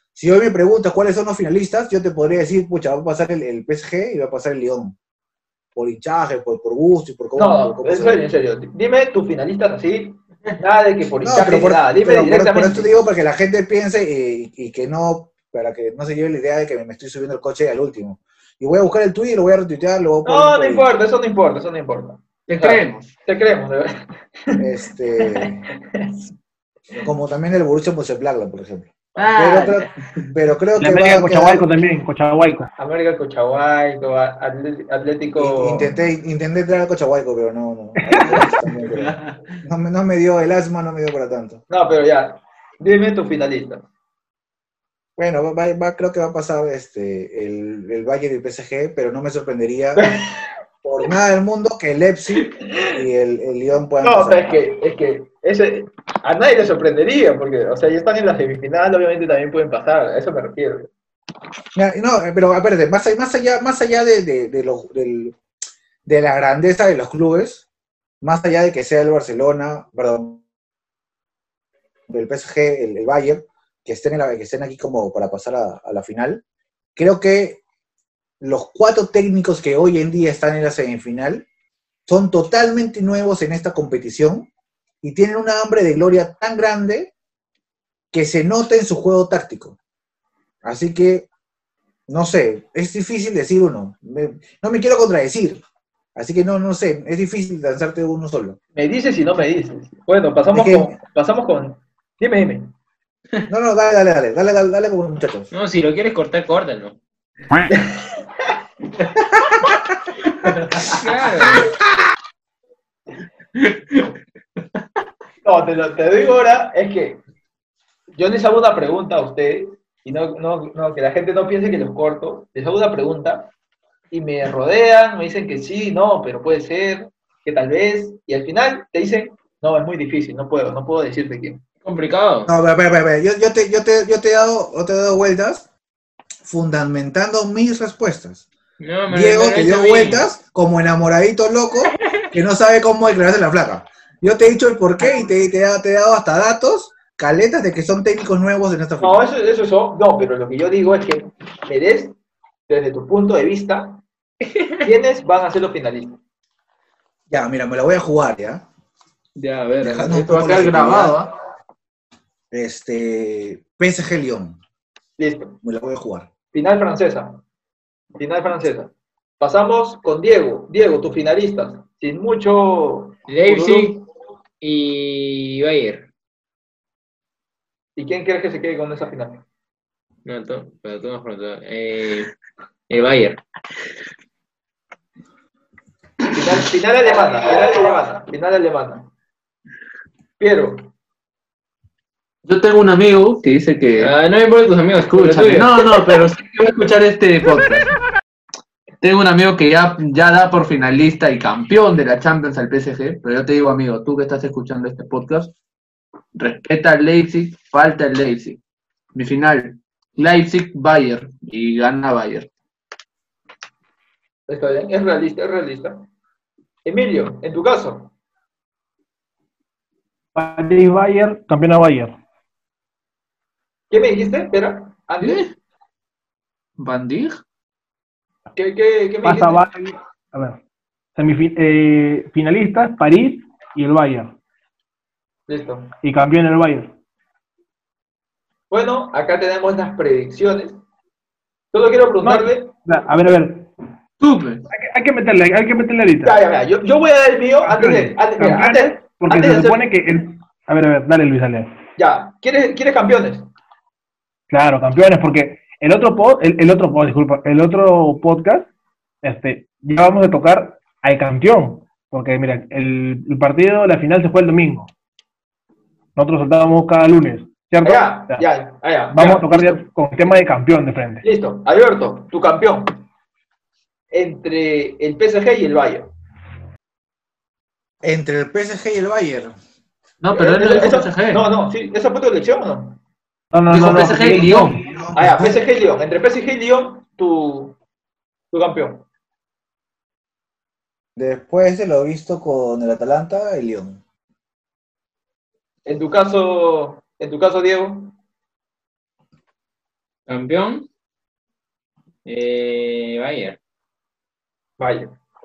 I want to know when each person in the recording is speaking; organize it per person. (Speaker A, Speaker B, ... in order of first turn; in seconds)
Speaker A: 0.2-5.0, 5.8-8.3, 11.2-20.9, 24.6-25.7, 27.0-31.7, 35.4-41.6, 45.2-50.2, 50.8-54.6, 61.8-65.4, 66.1-67.7, 68.2-70.4, 72.1-76.4, 77.0-77.6, 78.4-81.5, 82.1-84.5, 85.0-87.1, 88.1-89.8, 90.6-91.3, 92.1-95.6, 96.2-98.6, 100.5-101.0, 103.5-105.5, 132.5-135.7, 136.4-138.5, 139.1-149.2, 157.3-158.6, 159.8-161.2, 162.5-164.6, 165.6-166.3, 278.0-279.6, 284.8-285.5, 291.2-294.0
Speaker B: 7.4-12.9, 20.2-24.6, 25.2-26.1, 32.8-35.9, 38.1-38.5, 41.7-43.9, 50.0-50.5, 54.0-60.9, 98.8-102.7, 107.7-108.2, 115.4-117.2, 118.1-123.5, 124.1-131.6, 149.0-152.2, 152.7-154.0, 154.8-156.2, 165.2-165.6, 166.5-167.4, 168.2-174.0, 178.0-179.4, 186.3-189.1, 190.4-190.9, 214.5-216.1, 216.8-218.1, 223.9-225.5, 228.6-229.6, 235.5-235.9, 238.7-240.8, 241.7-242.7, 246.2-249.8, 252.0-253.5, 267.8-269.8, 271.2-273.0, 274.1-276.1, 280.3-283.0, 285.1-287.8, 288.5-289.1, 295.9-298.2, 304.8-305.2
Speaker C: 22.5-23.1, 29.2-30.2, 38.9-39.4, 113.6-114.1, 159.4-161.3, 192.4-194.1, 195.1-197.9, 199.0-205.5, 206.4-208.6, 209.2-212.5, 225.2-225.5, 226.8-227.4, 244.2-244.6, 280.2-281.5, 283.7-284.9
Speaker D: 30.8-32.7, 220.3-222.2, 229.2-230.6, 231.2-234.3, 236.0-236.9, 242.2-243.7, 244.7-246.4, 247.6-251.8, 254.5-258.7, 259.2-264.9, 266.2-268.5, 269.1-271.3, 283.5-284.9
Speaker E: 105.5-107.0, 110.9-111.7, 131.8-132.5, 138.8-140.2, 173.3-174.0, 174.6-176.1, 180.2-182.3, 182.9-183.4, 194.0-196.2, 300.3-300.9, 302.2-303.6